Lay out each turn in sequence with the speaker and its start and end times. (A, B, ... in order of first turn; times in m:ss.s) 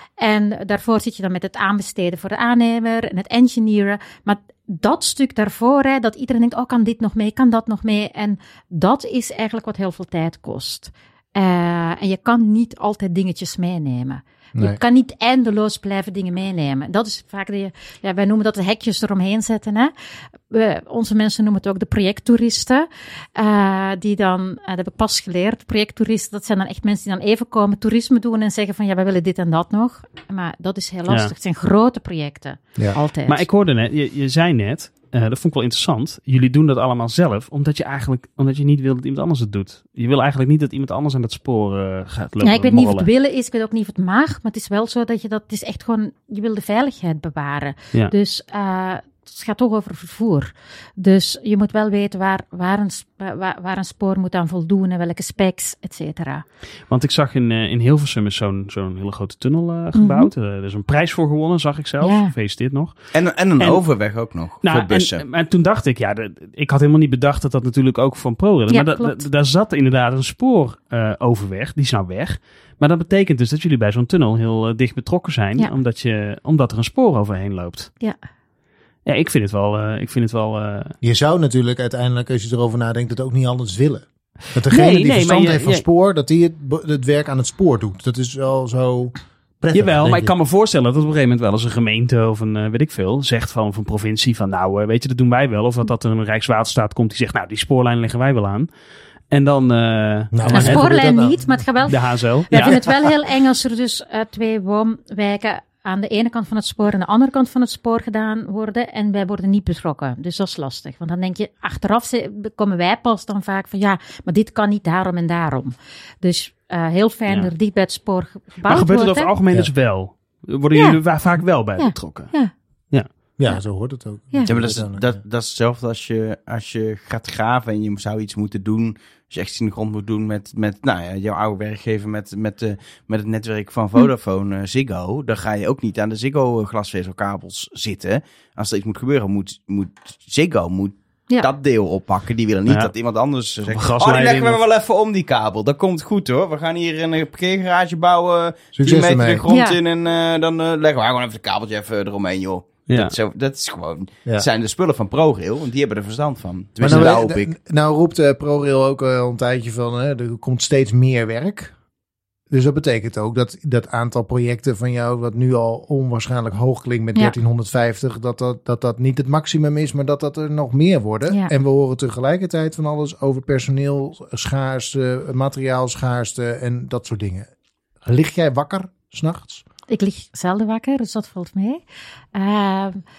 0:00.2-0:19.9 A
0:20.5-0:33.5 A
0:31.1-0:31.3 B
0:33.3-0:43.1 B
0:42.4-0:56.4 A
0:56.9-1:03.0 B
1:00.0-1:00.3 A
1:02.0-1:02.3 A
1:03.1-1:05.2 C
1:04.6-1:17.9 B
1:08.7-1:09.2 A
1:19.1-1:20.9 B
1:21.0-1:30.3 D
1:24.7-1:25.8 B
1:29.7-1:38.7 B
1:39.3-1:40.9 B
1:40.3-1:41.6 D
1:40.5-1:59.3 A
1:41.9-1:42.8 B
1:58.6-2:02.3 B
2:00.8-2:02.5 A
2:03.4-2:05.2 D
2:04.5-2:37.5 C
2:23.7-2:24.6 B
2:28.8-2:29.4 D
2:29.5-2:29.8 A
2:32.9-2:33.1 B
2:36.8-2:41.7 D
2:42.5-2:57.5 D
2:58.0-2:59.6 D
2:59.9-3:01.8 A
3:02.4-3:03.0 A